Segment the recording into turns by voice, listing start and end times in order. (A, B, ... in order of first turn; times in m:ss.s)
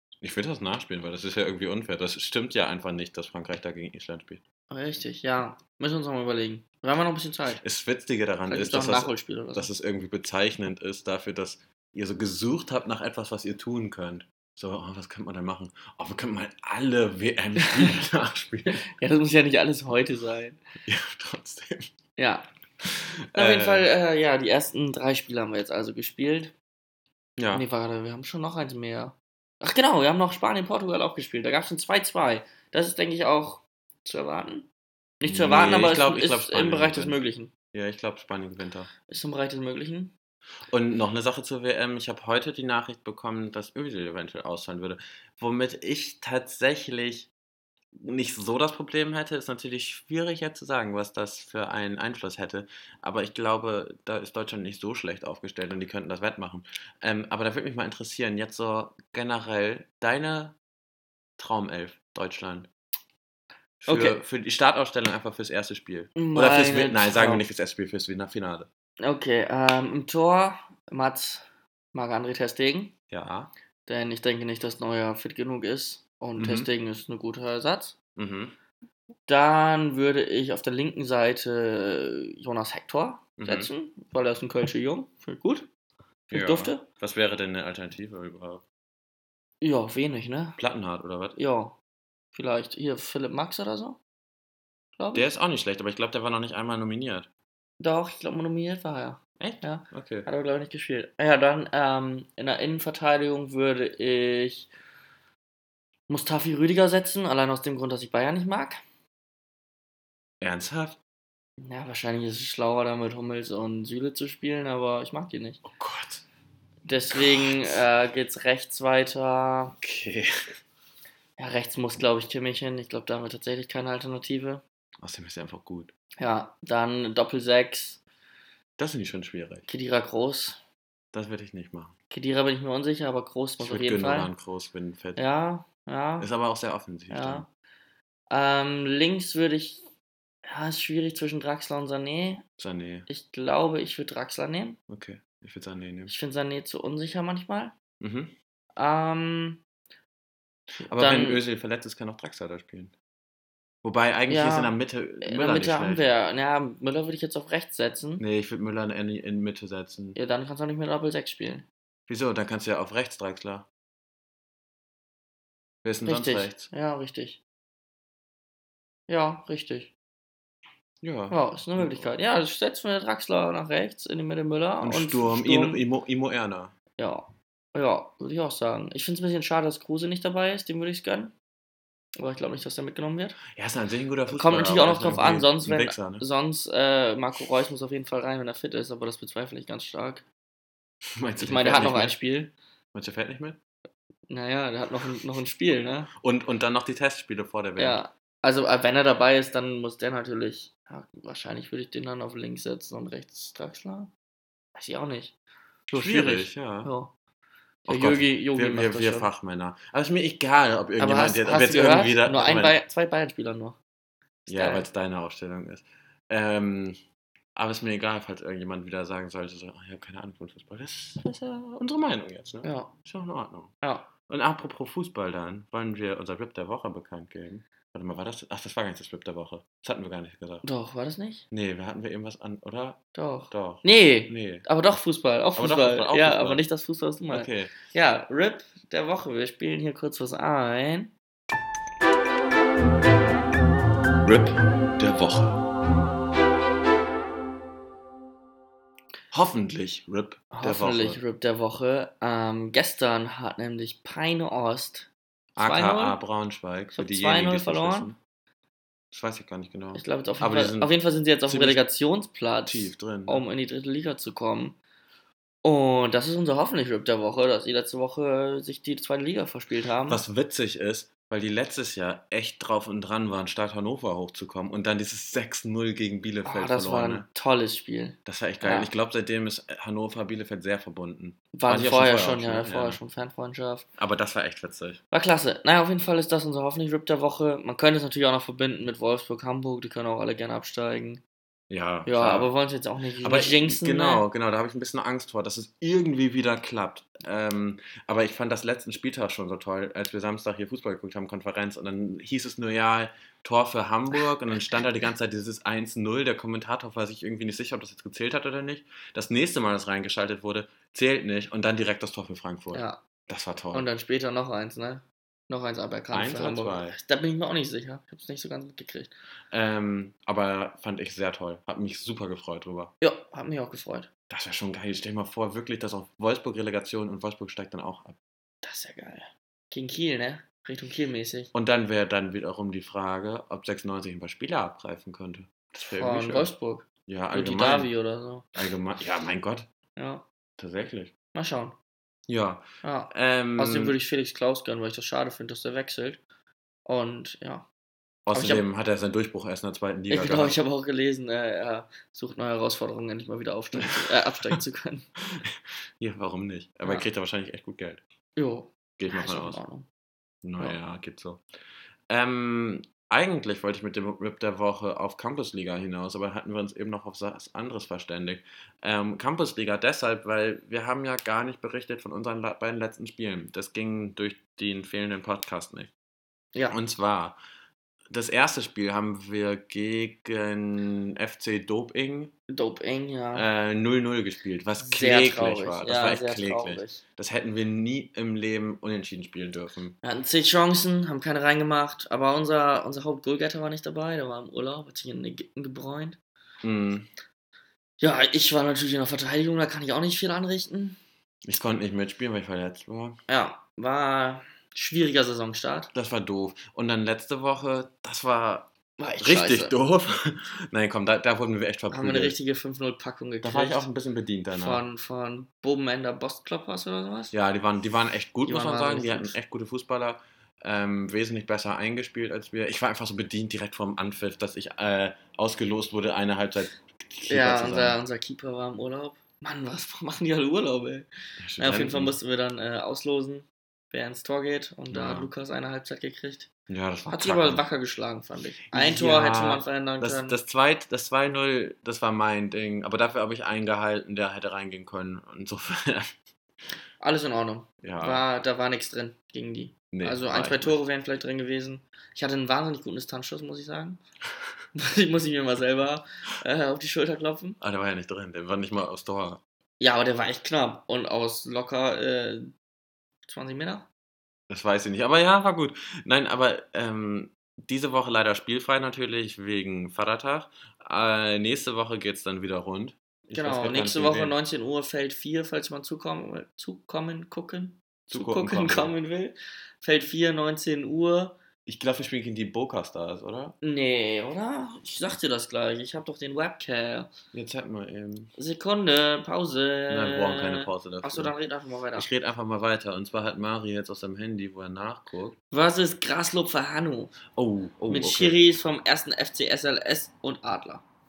0:00.2-0:04.4 A
0:04.7-0:07.6 B
0:07.6-0:18.8 A
0:08.5-0:09.7 B
0:17.6-0:17.9 B
0:18.7-0:20.6 B
0:20.9-0:21.9 A
0:22.2-0:22.5 B
0:22.8-0:23.9 A
0:23.3-0:26.5 B
0:27.4-0:27.7 A
0:27.5-0:34.7 B
0:35.2-0:37.5 B
0:35.3-0:37.2 A
0:37.7-0:38.9 A
0:39.1-0:40.1 B
0:40.7-0:47.3 A
0:47.9-1:00.6 A
1:01.4-1:02.7 A
1:03.8-1:08.7 A
1:03.9-1:04.2 B
1:06.2-1:07.4 B
1:09.0-1:12.9 B
1:13.1-1:13.5 A
1:13.9-1:18.0 B
1:16.4-1:16.7 A
1:18.2-1:18.6 A
1:19.3-1:25.7 B
1:23.4-1:23.7 A
1:26.3-1:28.6 A
1:26.3-1:26.9 B
1:29.6-1:30.6 B
1:30.6-1:31.4 A
1:31.4-1:31.8 B
1:32.3-1:34.0 B
1:35.0-1:35.3 B
1:35.1-1:37.3 A
1:37.8-1:44.7 B
1:39.4-1:40.3 A
1:46.1-1:48.8 B
1:50.4-1:51.0 A
1:51.6-1:55.6 B
1:55.6-1:56.2 A
1:56.8-1:59.8 B
1:57.2-1:57.8 A
1:59.8-2:00.3 A
2:01.4-2:04.6 B
2:05.0-2:05.9 A
2:06.2-2:08.0 B
2:08.8-2:09.7 A
2:09.7-2:10.6 B
2:11.1-2:12.0 A
2:12.1-2:14.3 B
2:13.6-2:15.2 A
2:15.2-2:16.3 B
2:16.2-2:17.4 A
2:17.1-2:17.5 B
2:18.3-2:19.8 B
2:20.5-2:22.4 B
2:22.6-2:23.1 A
2:23.1-2:24.8 B
2:24.9-2:26.1 A
2:26.1-2:27.8 B
2:28.0-2:28.3 A
2:28.8-2:29.6 B
2:30.8-2:32.9 A
2:31.0-2:31.4 B
2:33.8-2:36.0 A
2:34.3-2:38.2 B
2:38.2-2:40.2 A
2:40.2-2:41.7 B
2:42.1-2:43.7 A
2:45.8-2:46.7 A
2:46.0-2:47.4 B
2:49.1-2:49.9 B
2:51.0-2:52.1 A
2:51.3-2:55.8 B
2:54.8-2:56.7 A
2:57.0-3:01.3 B
3:02.2-3:03.4 B
3:03.5-3:06.2 A
3:04.3-3:10.2 B
3:11.1-3:12.2 A
3:11.4-3:12.5 B
3:12.9-3:13.6 A
3:14.3-3:16.1 B
3:16.2-3:18.0 A
3:17.8-3:24.1 B
3:24.8-3:25.3 B
3:25.9-3:27.1 B
3:25.9-3:26.9 A
3:27.9-3:32.8 A
3:27.9-3:29.3 B
3:31.0-3:33.8 B
3:34.5-3:37.0 A
3:34.5-3:34.9 B
3:37.6-3:43.7 A
3:42.6-3:42.9 B
3:43.8-3:44.1 B
3:44.3-3:50.6 A
3:50.6-3:51.4 B
3:51.5-3:54.7 A
3:53.2-4:01.1 B
3:55.6-3:56.6 A
3:57.3-3:57.8 A
4:04.2-4:05.6 A
4:09.3-4:11.2 A
4:10.5-4:16.2 B
4:15.6-4:18.2 A
4:16.9-4:18.1 B
4:19.1-4:20.9 A
4:19.9-4:24.8 B
4:21.4-4:21.8 A
4:22.6-4:23.4 A
4:25.6-4:30.2 B
4:30.1-4:37.3 A
4:36.4-4:38.9 B
4:38.3-4:43.0 A
4:41.5-4:43.9 B
4:44.0-4:45.0 A
4:45.1-4:51.2 B
4:51.7-4:52.5 A
4:52.1-4:54.2 B
4:53.2-5:13.9 A
5:12.7-5:13.0 B
5:13.7-5:19.1 B
5:16.1-5:17.0 A
5:19.5-5:22.9 A
5:23.0-5:24.1 B
5:24.3-5:28.2 A
5:28.6-5:31.5 B
5:31.5-5:36.5 A
5:36.0-5:38.5 B
5:37.1-5:37.9 A
5:38.6-5:39.7 A
5:40.0-5:40.2 B
5:40.6-5:41.1 A
5:41.4-5:41.8 B
5:42.3-5:44.0 A
5:42.8-5:46.2 B
5:46.9-5:47.7 B
5:48.3-5:50.6 A
5:48.3-5:48.6 B
5:50.1-5:55.1 B
5:53.8-5:54.6 A
5:55.3-5:58.0 A
5:58.4-5:59.9 B
5:59.0-5:59.6 A
6:00.4-6:01.4 A
6:02.1-6:15.9 A
6:16.5-6:16.8 B
6:16.7-6:17.4 A
6:18.1-6:22.3 A
6:22.5-6:23.4 B
6:23.3-6:30.0 A
6:24.8-6:27.0 B
6:30.0-6:36.2 B
6:36.6-6:37.1 A
6:38.0-6:41.0 B
6:41.4-6:43.2 A
6:43.3-6:45.9 B
6:45.9-6:52.4 A
6:49.0-6:49.8 B
6:51.9-6:53.9 B
6:53.4-6:54.8 A
6:54.5-6:57.3 B
6:57.3-7:08.0 A
6:58.5-6:59.3 B
7:07.3-7:11.1 B
7:11.4-7:12.2 A
7:11.6-7:16.5 B
7:14.9-7:15.3 A
7:16.7-7:17.6 A
7:17.1-7:20.4 B
7:18.7-7:26.2 A
7:27.0-7:34.0 B
7:27.8-7:28.2 A
7:29.9-7:30.8 A
7:34.8-7:37.6 B
7:37.6-7:39.4 A
7:39.8-7:42.5 B
7:43.3-7:43.9 B
7:44.5-7:54.4 A
7:53.3-8:01.4 B
7:58.1-7:58.9 A
8:01.7-8:03.6 A
8:03.6-8:07.1 B
8:07.3-8:08.3 A
8:08.4-8:12.1 B
8:09.9-8:11.3 A
8:12.0-8:15.4 A
8:15.5-8:17.2 B
8:17.4-8:18.4 A
8:17.9-8:20.8 B